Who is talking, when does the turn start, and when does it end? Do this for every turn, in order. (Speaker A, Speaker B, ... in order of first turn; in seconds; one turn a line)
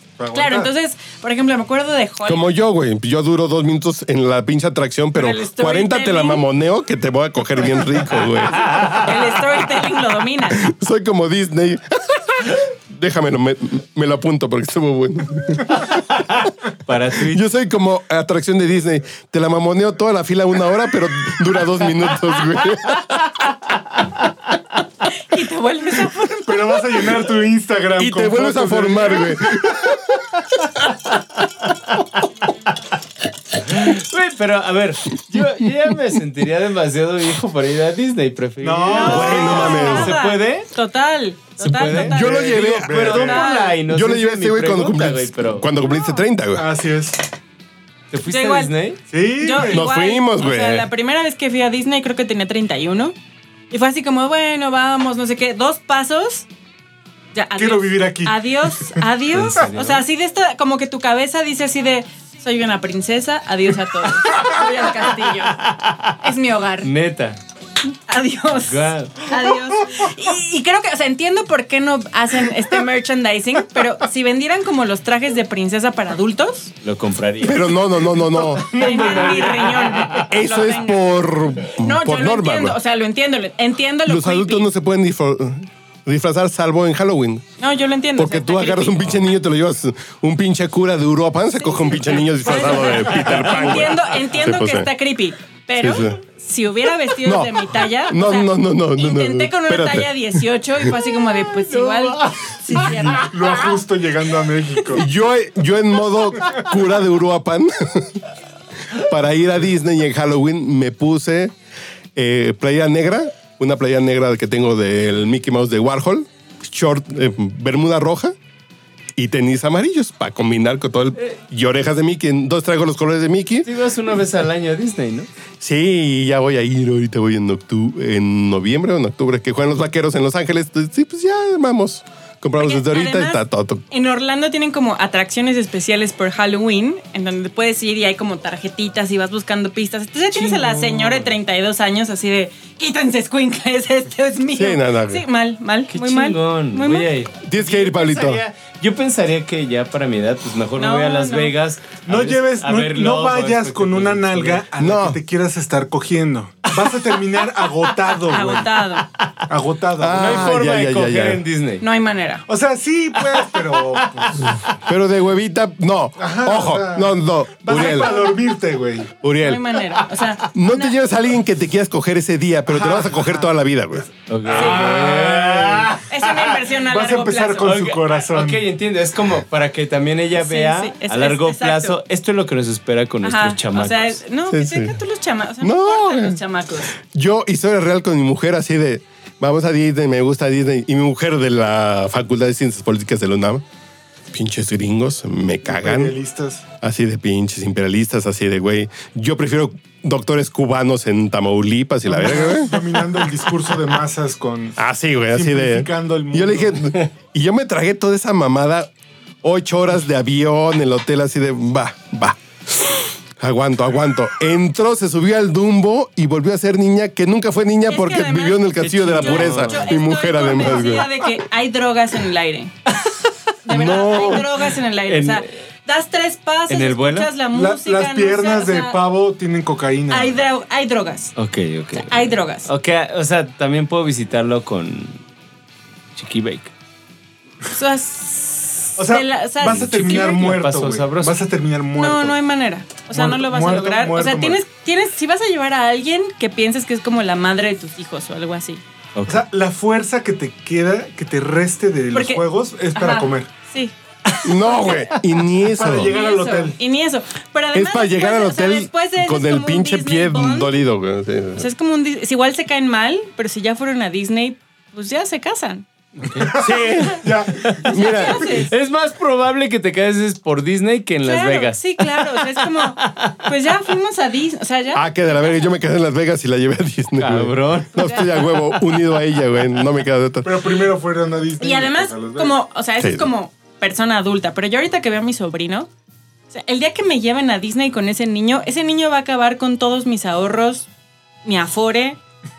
Speaker A: 0.2-0.7
Speaker B: 0.3-2.5
Speaker C: 2.2-9.2
Speaker B: 5.1-6.4
Speaker D: 8.7-8.9
Speaker B: 8.8-10.6
Speaker C: 10.6-16.0
Speaker D: 16.3-17.4
Speaker C: 17.2-23.3
Speaker B: 25.1-27.1
Speaker A: 26.4-29.7
Speaker C: 28.0-30.3
Speaker D: 31.7-32.0
Speaker D: 33.6-40.7
Speaker A: 38.6-40.0
Speaker B: 38.9-42.5
Speaker C: 39.0-40.1
Speaker D: 41.6-45.7
Speaker A: 41.9-43.5
Speaker C: 42.0-43.2
Speaker B: 43.1-43.8
Speaker C: 43.8-46.6
Speaker B: 45.8-46.2
Speaker A: 46.5-47.2
Speaker D: 48.1-49.0
Speaker B: 48.3-48.7
Speaker A: 49.1-49.8
Speaker B: 49.4-53.1
Speaker C: 49.6-50.9
Speaker B: 53.7-56.5
Speaker B: 57.3-65.6
Speaker A: 57.5-59.0
Speaker D: 59.3-60.0
Speaker D: 65.5-66.2
Speaker B: 66.2-66.9
Speaker D: 66.8-67.4
Speaker B: 68.1-76.7
Speaker D: 68.6-69.3
Speaker D: 76.8-77.8
Speaker C: 77.4-78.7
Speaker A: 78.2-80.2
Speaker B: 78.7-84.7
Speaker D: 78.8-80.2
Speaker C: 80.2-82.8
Speaker C: 84.0-87.4
Speaker B: 87.6-89.2
Speaker C: 88.2-94.9
Speaker B: 91.6-103.3
Speaker D: 92.5-93.8
Speaker C: 95.8-96.2
Speaker C: 97.2-100.9
Speaker D: 101.6-103.5
Speaker A: 103.0-105.1
Speaker C: 104.9-108.2
Speaker C: 108.9-111.5
Speaker C: 112.2-118.3
Speaker C: 119.2-123.7
Speaker D: 123.6-125.3
Speaker C: 125.6-133.8
Speaker B: 132.6-147.1
Speaker D: 140.3-141.3
Speaker C: 144.5-145.2
Speaker D: 145.9-154.7
Speaker C: 147.4-148.4
Speaker B: 150.8-151.5
Speaker A: 152.1-158.8
Speaker C: 154.8-155.2
Speaker B: 158.2-159.1
Speaker A: 159.5-160.6
Speaker C: 160.0-161.4
Speaker D: 160.1-161.8
Speaker B: 161.8-162.4
Speaker A: 162.5-164.5
Speaker D: 163.2-164.6
Speaker C: 164.8-168.3
Speaker A: 166.2-169.1
Speaker C: 169.2-169.8
Speaker B: 169.4-170.9
Speaker C: 170.5-174.1
Speaker A: 172.7-173.5
Speaker D: 174.3-176.6
Speaker A: 174.4-176.0
Speaker B: 174.5-174.9
Speaker B: 176.0-177.8
Speaker A: 176.8-178.6
Speaker D: 177.6-184.2
Speaker B: 180.3-182.0
Speaker B: 183.2-186.9
Speaker C: 184.5-184.9
Speaker C: 185.6-186.4
Speaker C: 186.9-193.6
Speaker C: 194.3-196.2
Speaker A: 195.6-196.6
Speaker C: 196.8-203.0
Speaker A: 202.1-204.8
Speaker C: 204.8-208.9
Speaker A: 205.3-206.9
Speaker C: 209.4-221.1
Speaker B: 217.9-222.7
Speaker D: 218.8-219.9
Speaker B: 223.6-229.0
Speaker C: 223.7-224.5
Speaker D: 225.1-225.6
Speaker D: 226.7-227.3
Speaker A: 227.5-230.4
Speaker B: 230.1-231.3
Speaker D: 231.3-235.2
Speaker B: 231.9-232.7
Speaker D: 236.1-236.7
Speaker B: 237.7-240.3
Speaker A: 239.0-242.4
Speaker D: 239.6-241.4
Speaker B: 242.0-248.8
Speaker A: 243.1-244.6
Speaker D: 249.1-249.4
Speaker A: 249.3-253.5
Speaker B: 252.1-252.4
Speaker B: 252.9-253.9
Speaker C: 254.4-256.2
Speaker B: 254.6-255.0
Speaker A: 255.5-256.8
Speaker B: 256.0-260.7
Speaker C: 257.7-261.7
Speaker B: 261.6-265.9
Speaker D: 266.2-266.5
Speaker A: 266.4-268.0
Speaker C: 266.5-268.6
Speaker B: 267.9-268.7
Speaker D: 268.4-273.4
Speaker B: 271.2-275.0
Speaker C: 274.9-280.7
Speaker D: 277.2-279.1
Speaker A: 280.4-282.6
Speaker B: 281.6-285.9
Speaker C: 283.0-283.3
Speaker B: 286.5-290.9
Speaker B: 291.4-292.2